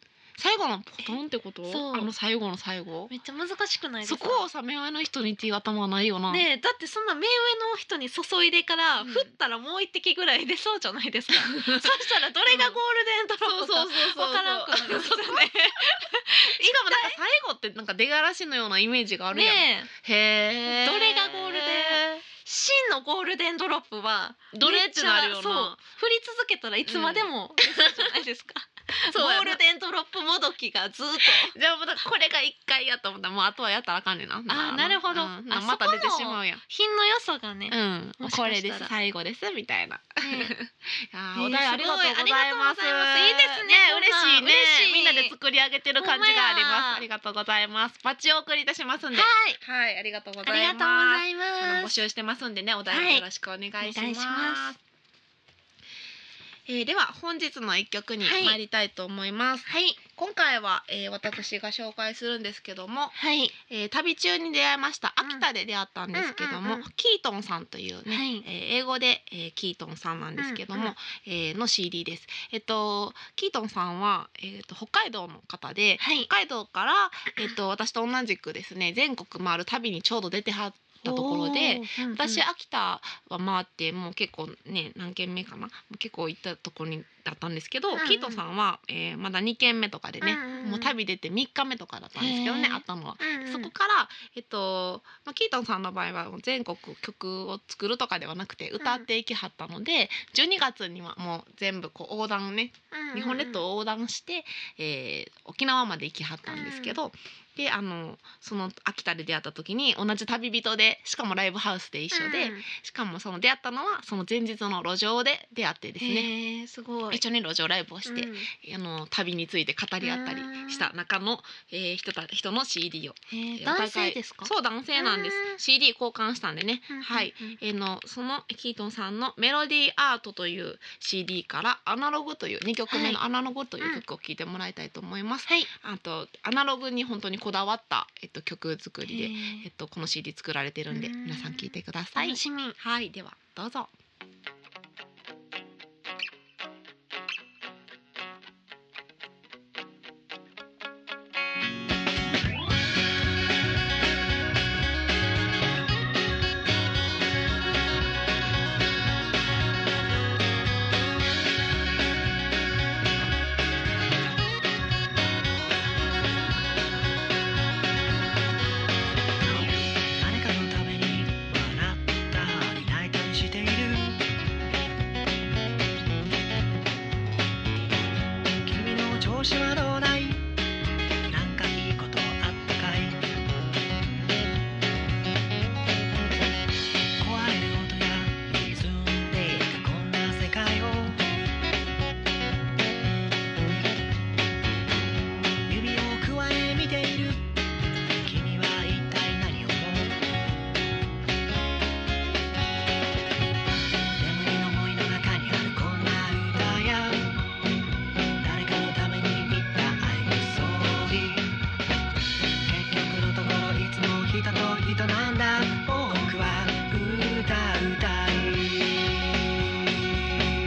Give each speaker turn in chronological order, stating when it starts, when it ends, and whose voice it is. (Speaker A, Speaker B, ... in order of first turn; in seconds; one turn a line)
Speaker A: 0.4-3.1
Speaker B: 1.0-2.1
Speaker B: 3.1-4.5
Speaker A: 4.0-6.4
Speaker B: 6.3-17.2
Speaker A: 9.0-9.3
Speaker A: 11.4-11.9
Speaker A: 12.5-12.8
Speaker A: 13.4-15.5
Speaker A: 16.6-22.2
Speaker B: 19.3-19.9
Speaker B: 20.6-31.5
Speaker A: 24.5-25.8
Speaker A: 26.9-28.1
Speaker A: 29.1-29.6
Speaker A: 31.2-36.6
Speaker B: 34.5-38.9
Speaker A: 37.7-54.8
Speaker B: 40.2-40.5
Speaker B: 41.3-45.3
Speaker B: 46.0-47.0
Speaker B: 49.1-49.6
Speaker B: 50.4-52.0
Speaker B: 52.9-53.2
Speaker B: 53.8-54.7
Speaker A: 56.6-63.1
Speaker B: 58.2-58.6
Speaker B: 59.6-60.0
Speaker B: 63.1-63.5
Speaker A: 63.7-116.3
Speaker B: 66.1-66.9
Speaker B: 68.1-68.5
Speaker B: 70.4-70.9
Speaker B: 76.0-76.3
Speaker B: 81.0-82.4
Speaker B: 87.9-88.4
Speaker B: 90.2-90.9
Speaker B: 92.2-93.7
Speaker B: 98.8-99.0
Speaker B: 102.9-103.6
Speaker B: 106.5-107.0
Speaker B: 112.1-112.7
Speaker B: 116.0-117.2
Speaker A: 117.1-143.9
Speaker B: 118.0-118.5
Speaker B: 120.0-120.9
Speaker B: 123.3-125.6
Speaker B: 126.9-127.6
Speaker B: 132.9-133.2
Speaker B: 139.0-139.7
Speaker B: 140.9-142.8
Speaker C: 169.8-174.2
Speaker C: 178.5-180.4
Speaker C: 181.3-183.3
Speaker C: 187.2-191.3
Speaker C: 195.7-197.5
Speaker C: 198.2-200.2
Speaker C: 204.1-207.4
Speaker C: 208.4-211.5
Speaker C: 212.6-219.3